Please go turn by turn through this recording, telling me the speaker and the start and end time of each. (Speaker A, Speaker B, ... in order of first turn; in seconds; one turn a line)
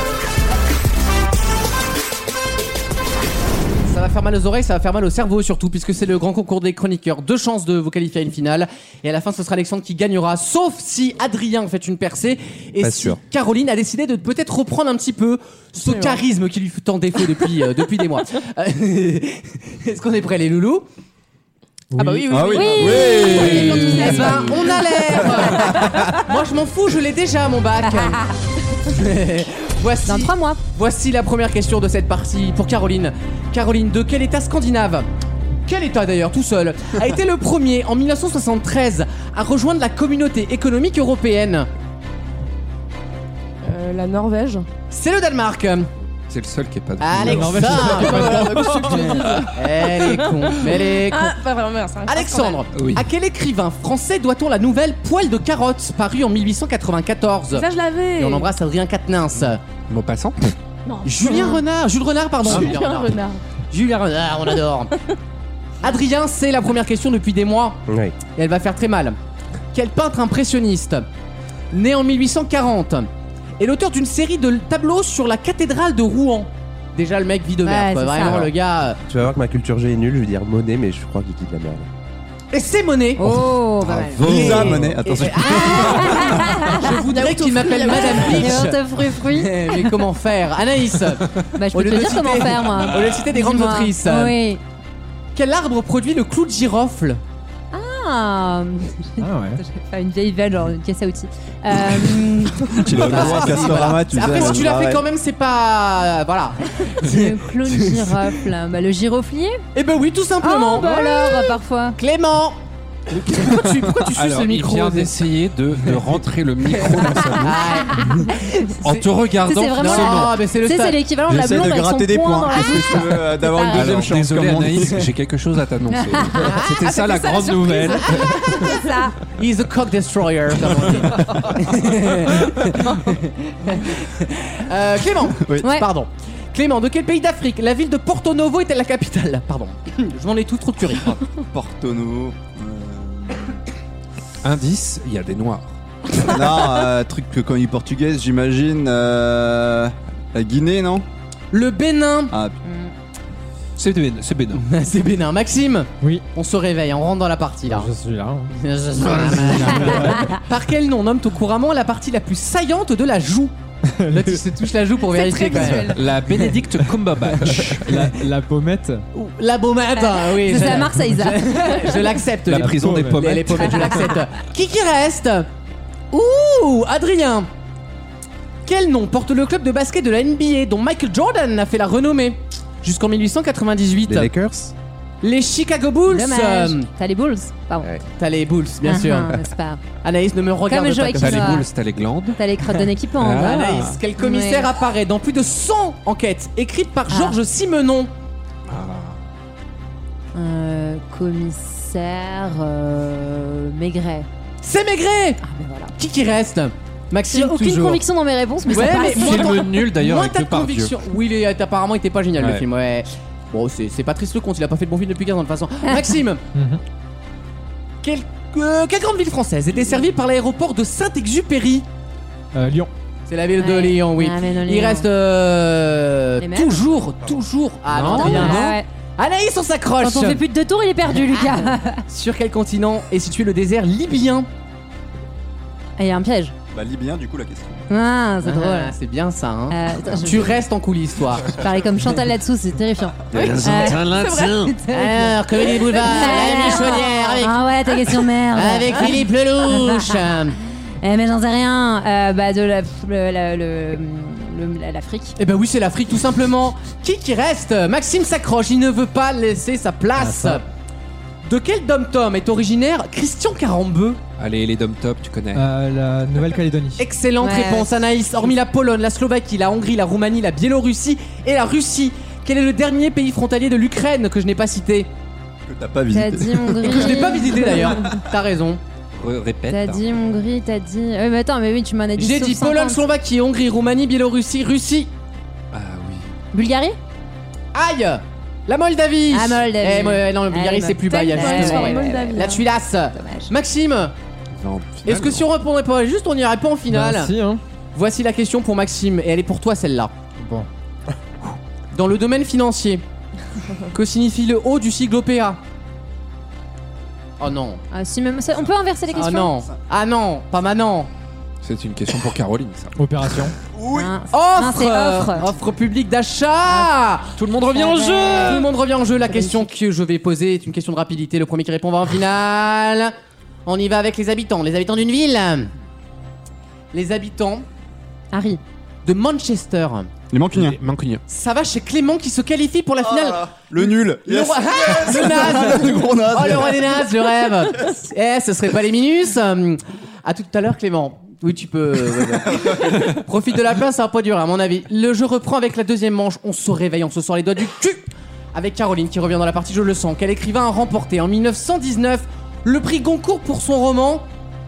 Speaker A: 3.9-20.9
Speaker B: 12.8-13.2
Speaker C: 15.9-16.2
Speaker D: 21.9-22.2
Speaker C: 21.9-24.5
Speaker E: 22.3-24.4
Speaker F: 22.5-24.6
Speaker A: 23.4-28.2
Speaker A: 28.9-35.1
Speaker F: 30.1-30.6
Speaker A: 35.7-41.7
Speaker C: 43.6-44.7
Speaker A: 44.9-45.9
Speaker G: 46.3-48.2
Speaker A: 47.0-51.4
Speaker D: 47.2-49.1
Speaker C: 47.9-52.6
Speaker A: 52.0-59.6
Speaker G: 52.7-53.1
Speaker C: 57.5-58.5
Speaker G: 59.9-60.5
Speaker C: 60.9-61.6
Speaker A: 61.0-64.9
Speaker C: 62.5-63.4
Speaker A: 65.8-69.2
Speaker B: 67.9-68.2
Speaker A: 69.7-71.1
Speaker A: 71.7-79.0
Speaker F: 77.7-78.5
Speaker B: 79.1-81.9
Speaker A: 82.5-83.4
Speaker F: 83.2-86.9
Speaker E: 83.9-86.6
Speaker A: 84.1-94.4
Speaker G: 84.4-84.7
Speaker C: 86.7-88.7
Speaker F: 88.0-90.0
Speaker F: 91.5-94.6
Speaker A: 95.3-97.2
Speaker F: 97.7-103.7
Speaker D: 99.2-99.6
Speaker E: 102.7-105.0
Speaker A: 102.9-108.3
Speaker F: 107.0-109.6
Speaker A: 109.8-111.5
Speaker F: 110.4-112.0
Speaker A: 112.0-112.6
Speaker A: 113.1-115.1
Speaker G: 114.2-117.6
Speaker A: 116.7-119.1
Speaker F: 117.2-118.7
Speaker G: 118.8-120.4
Speaker F: 119.4-124.0
Speaker A: 119.8-121.0
Speaker E: 121.3-125.1
Speaker G: 123.7-128.7
Speaker F: 125.9-126.7
Speaker C: 126.8-128.5
Speaker F: 128.5-129.2
Speaker A: 129.3-141.2
Speaker E: 141.5-143.6
Speaker G: 144.4-145.7
Speaker E: 146.2-151.1
Speaker A: 151.5-152.3
Speaker E: 152.3-152.6
Speaker F: 152.6-152.9
Speaker G: 153.8-154.6
Speaker A: 154.6-157.9
Speaker D: 157.7-158.5
Speaker A: 158.5-163.5
Speaker D: 159.1-160.3
Speaker F: 160.0-160.4
Speaker D: 163.9-164.4
Speaker A: 164.1-166.0
Speaker C: 165.1-166.1
Speaker G: 165.8-167.9
Speaker D: 167.5-169.0
Speaker A: 169.1-175.5
Speaker F: 170.0-171.9
Speaker G: 172.5-174.1
Speaker D: 172.5-173.6
Speaker A: 176.1-177.5
Speaker A: 178.7-184.3
Speaker B: 184.1-184.7
Speaker A: 185.2-186.9
Speaker F: 186.1-187.9
Speaker A: 188.2-189.4
Speaker F: 188.8-189.8
Speaker A: 190.0-191.6
Speaker F: 190.7-191.7
Speaker G: 191.2-192.4
Speaker F: 192.4-194.7
Speaker G: 193.2-194.0
Speaker A: 193.3-198.1
Speaker F: 197.1-197.4
Speaker G: 198.7-199.2
Speaker F: 200.3-204.3
Speaker A: 204.6-205.4
Speaker F: 205.4-205.9
Speaker A: 206.0-208.0
Speaker F: 207.3-209.7
Speaker A: 208.7-216.4
Speaker G: 208.8-210.9
Speaker G: 212.4-212.7
Speaker D: 216.6-216.8
Speaker A: 218.0-221.9
Speaker D: 222.5-222.9
Speaker A: 223.3-230.4
Speaker F: 223.6-225.1
Speaker F: 226.4-226.8
Speaker G: 227.9-228.7
Speaker F: 228.1-228.9
Speaker F: 230.0-232.0
Speaker A: 232.1-234.5
Speaker F: 236.0-236.5
Speaker E: 236.7-237.8
Speaker F: 237.9-238.9
Speaker A: 238.4-241.6
Speaker F: 239.7-240.6
Speaker F: 241.5-245.4
Speaker G: 243.3-244.7
Speaker C: 243.3-244.6
Speaker A: 244.9-247.6
Speaker F: 245.9-250.2
Speaker C: 246.1-247.1
Speaker A: 248.5-250.6
Speaker F: 251.0-255.4
Speaker A: 255.4-260.6
Speaker D: 260.2-260.6
Speaker A: 261.4-264.2
Speaker G: 264.4-265.6
Speaker D: 265.6-267.0
Speaker A: 267.0-275.1
Speaker F: 267.4-268.0
Speaker E: 275.7-277.0
Speaker F: 276.1-277.7
Speaker A: 276.8-278.8
Speaker G: 279.1-280.0
Speaker F: 279.7-283.0
Speaker A: 282.2-285.1
Speaker G: 285.7-286.3
Speaker F: 286.5-287.0
Speaker A: 287.7-294.1
Speaker F: 289.3-292.6
Speaker C: 291.1-292.7
Speaker F: 293.1-293.5
Speaker G: 294.6-295.5
Speaker A: 295.1-297.3
Speaker D: 296.9-297.6
Speaker A: 297.9-300.1
Speaker D: 300.4-300.7
Speaker A: 301.9-303.0
Speaker A: 303.9-305.6
Speaker A: 307.4-307.8
Speaker F: 307.9-309.5
Speaker A: 309.1-311.1
Speaker G: 311.6-312.9
Speaker D: 313.0-313.6
Speaker E: 313.7-314.1
Speaker F: 313.9-315.5
Speaker A: 314.3-317.3
Speaker G: 317.4-318.7
Speaker F: 317.7-318.7
Speaker A: 318.1-323.1
Speaker F: 319.3-319.6
Speaker A: 323.7-325.7
Speaker A: 326.9-327.7
Speaker F: 328.3-328.6
Speaker A: 329.1-330.1
Speaker E: 330.3-330.8
Speaker G: 330.5-331.2
Speaker A: 331.3-354.2
Speaker E: 333.0-337.0